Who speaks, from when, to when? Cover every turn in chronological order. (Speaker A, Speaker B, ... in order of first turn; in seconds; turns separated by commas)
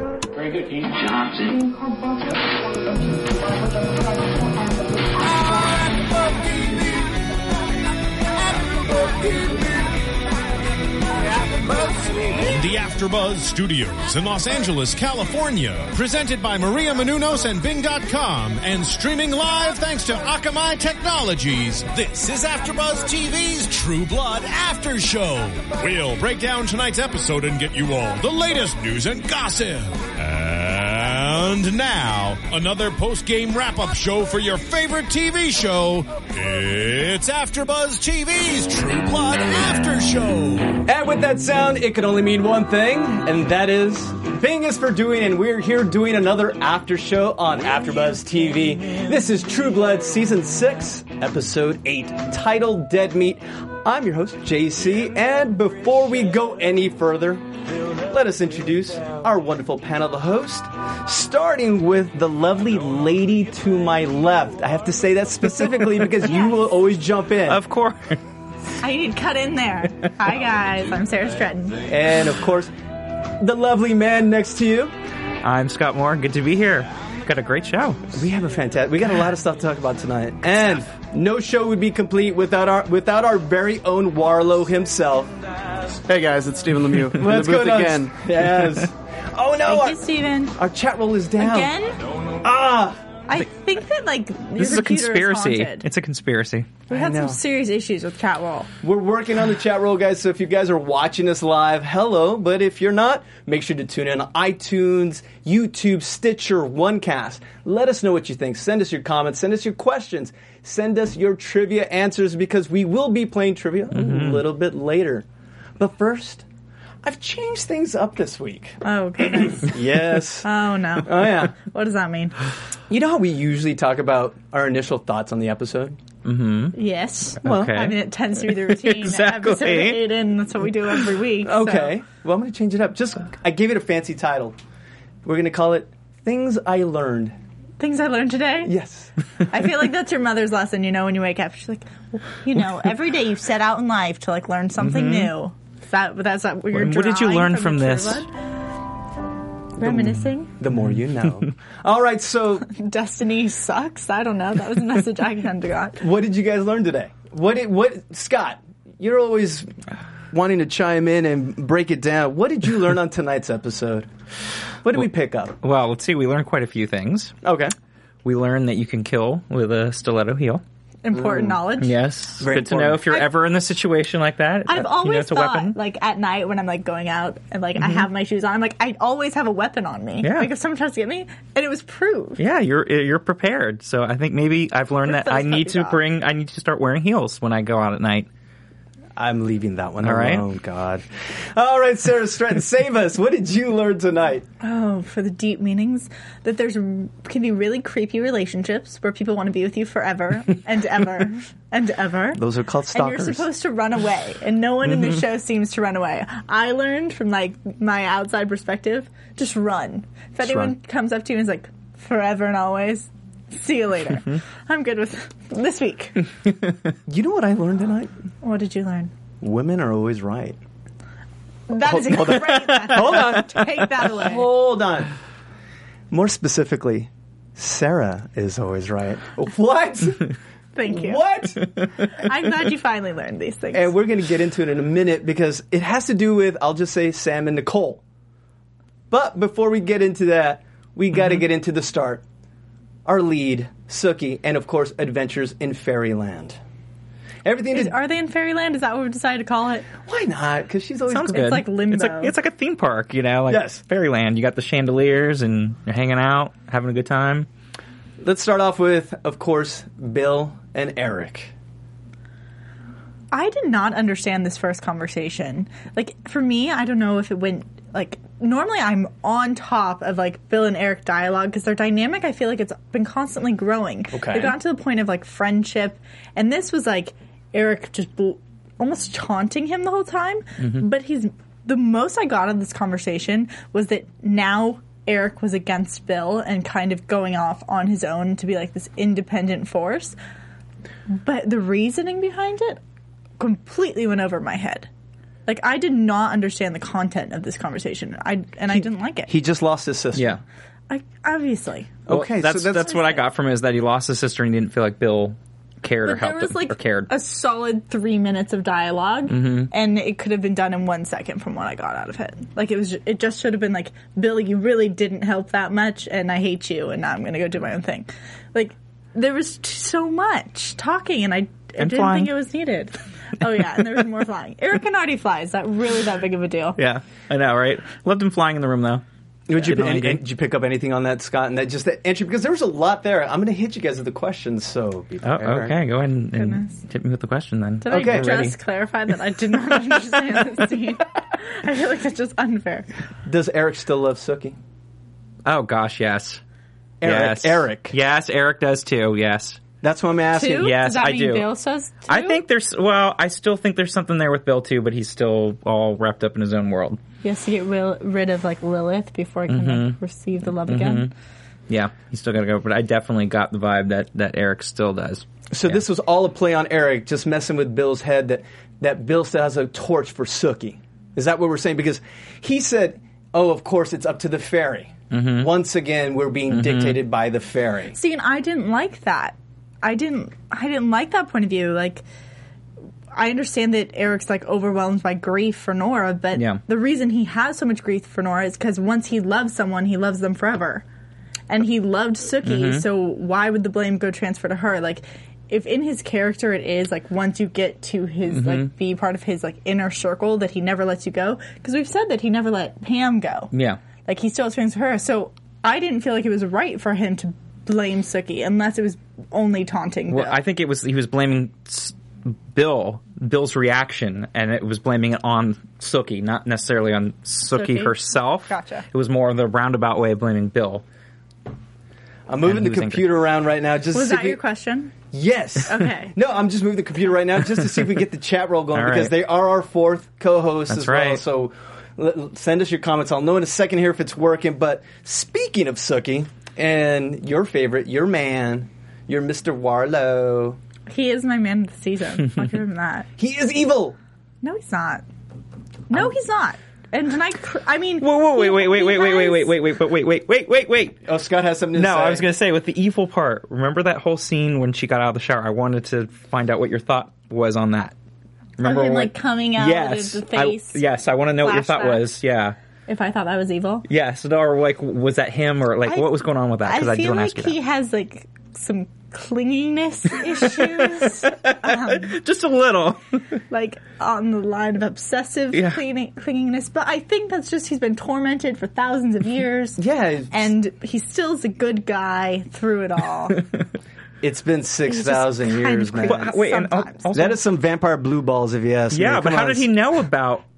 Speaker A: 0.9-1.6, Speaker A: 5.6-6.8, Speaker A: 8.9-9.6, Speaker A: 11.7-40.8, Speaker B: 40.8-57.5, Speaker B: 58.1-67.6, Speaker C: 66.3-66.6, Speaker D: 67.5-68.2, Speaker C: 68.8-71.8, Speaker B: 71.9-72.7, Speaker B: 73.2-74.9, Speaker D: 75.4-78.0, Speaker B: 78.1-85.3, Speaker E: 86.1-88.2, Speaker B: 87.0-91.7, Speaker C: 89.7-90.6, Speaker C: 91.4-92.0, Speaker B: 92.4-93.0, Speaker C: 93.3-95.9, Speaker D: 94.6-96.7, Speaker C: 96.9-98.7, Speaker B: 96.9-97.4, Speaker B: 98.8-115.2, Speaker D: 113.9-114.4, Speaker B: 115.8-116.5, Speaker B: 117.0-120.5, Speaker C: 118.8-122.3, Speaker B: 121.0-121.5, Speaker B: 122.9-126.0, Speaker D: 126.2-126.8, Speaker C: 126.7-132.0, Speaker B: 127.4-127.9, Speaker D: 127.4-130.0, Speaker B: 131.4-134.6, Speaker B: 135.2-137.4, Speaker C: 137.8-138.7, Speaker B: 138.6-139.1, Speaker C: 139.5-148.3, Speaker D: 144.8-145.3, Speaker D: 146.7-148.2, Speaker C: 149.8-150.5, Speaker B: 149.8-152.7, Speaker C: 152.7-156.0, Speaker B: 156.0-159.7, Speaker B: 160.3-164.1, Speaker B: 164.8-165.6, Speaker D: 165.6-167.4, Speaker B: 167.4-167.7, Speaker D: 168.2-170.6, Speaker C: 171.0-172.0, Speaker B: 171.1-171.6, Speaker D: 171.8-175.8, Speaker B: 172.4-173.3, Speaker C: 174.7-182.4, Speaker D: 180.2-180.5, Speaker D: 182.4-188.3, Speaker C: 185.1-186.0, Speaker B: 189.2-194.5, Speaker D: 190.0-190.4, Speaker C: 194.6-202.4, Speaker B: 202.3-203.5, Speaker C: 202.9-216.3, Speaker B: 210.4-210.7, Speaker B: 217.1-218.1, Speaker C: 218.4-219.1, Speaker B: 219.4-220.6, Speaker C: 221.7-224.5, Speaker B: 221.8-225.1, Speaker D: 222.7-223.0, Speaker B: 226.1-230.3, Speaker C: 230.7-231.3, Speaker B: 230.9-231.6, Speaker C: 232.1-233.9, Speaker B: 233.7-238.0, Speaker B: 239.1-242.2, Speaker B: 243.1-246.6, Speaker B: 247.4-247.9, Speaker C: 247.7-249.9, Speaker B: 250.0-251.6, Speaker D: 251.1-257.5, Speaker C: 251.1-252.3, Speaker B: 253.5-253.8, Speaker B: 258.2-261.5, Speaker C: 263.3-290.2, Speaker B: 274.1-274.6, Speaker C: 291.1-292.8, Speaker C: 293.4-294.9, Speaker C: 295.5-299.3, Speaker B: 299.3-300.4, Speaker D: 300.1-300.4, Speaker C: 300.9-302.0, Speaker B: 302.1-303.0, Speaker D: 302.1-307.1, Speaker C: 302.9-303.2, Speaker C: 306.1-326.8, Speaker D: 309.3-309.7, Speaker D: 321.8-322.4, Speaker D: 326.8-329.0, Speaker B: 329.5-335.8, Speaker D: 329.6-330.2, Speaker D: 335.2-338.6, Speaker C: 336.3-336.8, Speaker C: 337.8-342.9, Speaker B: 337.9-338.4, Speaker B: 343.2-344.6, Speaker D: 345.4-346.4, Speaker B: 347.0-348.0, Speaker D: 347.0-349.6, Speaker B: 349.8-350.8, Speaker C: 350.3-352.4, Speaker D: 350.6-351.5, Speaker D: 352.1-357.0, Speaker C: 357.2-361.1, Speaker D: 359.5-360.0, Speaker D: 360.6-361.1, Speaker D: 361.7-365.8, Speaker B: 365.5-378.0, Speaker D: 375.1-375.5, Speaker D: 376.5-377.0, Speaker C: 377.9-382.0, Speaker C: 383.1-390.8, Speaker D: 386.4-386.6, Speaker C: 391.5-403.5, Speaker D: 392.4-392.9, Speaker D: 398.3-398.7, Speaker D: 403.5-403.8, Speaker C: 404.1-410.4, Speaker D: 410.1-420.8, Speaker C: 417.5-418.9, Speaker B: 422.3-424.4, Speaker D: 422.5-423.1, Speaker C: 423.9-424.9, Speaker B: 425.1-440.6, Speaker C: 425.6-426.2, Speaker D: 428.7-429.1, Speaker D: 430.7-431.2, Speaker C: 440.9-443.1, Speaker B: 443.2-444.0, Speaker C: 444.4-445.1, Speaker C: 445.9-449.5, Speaker D: 448.0-451.0, Speaker B: 451.0-452.3, Speaker D: 451.8-457.9, Speaker D: 458.6-462.6, Speaker C: 458.6-460.8, Speaker C: 461.4-462.1, Speaker C: 462.9-463.9, Speaker D: 463.9-467.6, Speaker C: 465.9-472.2, Speaker D: 470.4-473.0, Speaker C: 473.5-479.8, Speaker D: 475.5-475.8, Speaker B: 479.8-480.5, Speaker C: 480.3-483.4, Speaker B: 484.2-486.3, Speaker C: 484.9-487.3, Speaker D: 486.1-487.4, Speaker B: 487.1-489.7, Speaker D: 488.9-490.4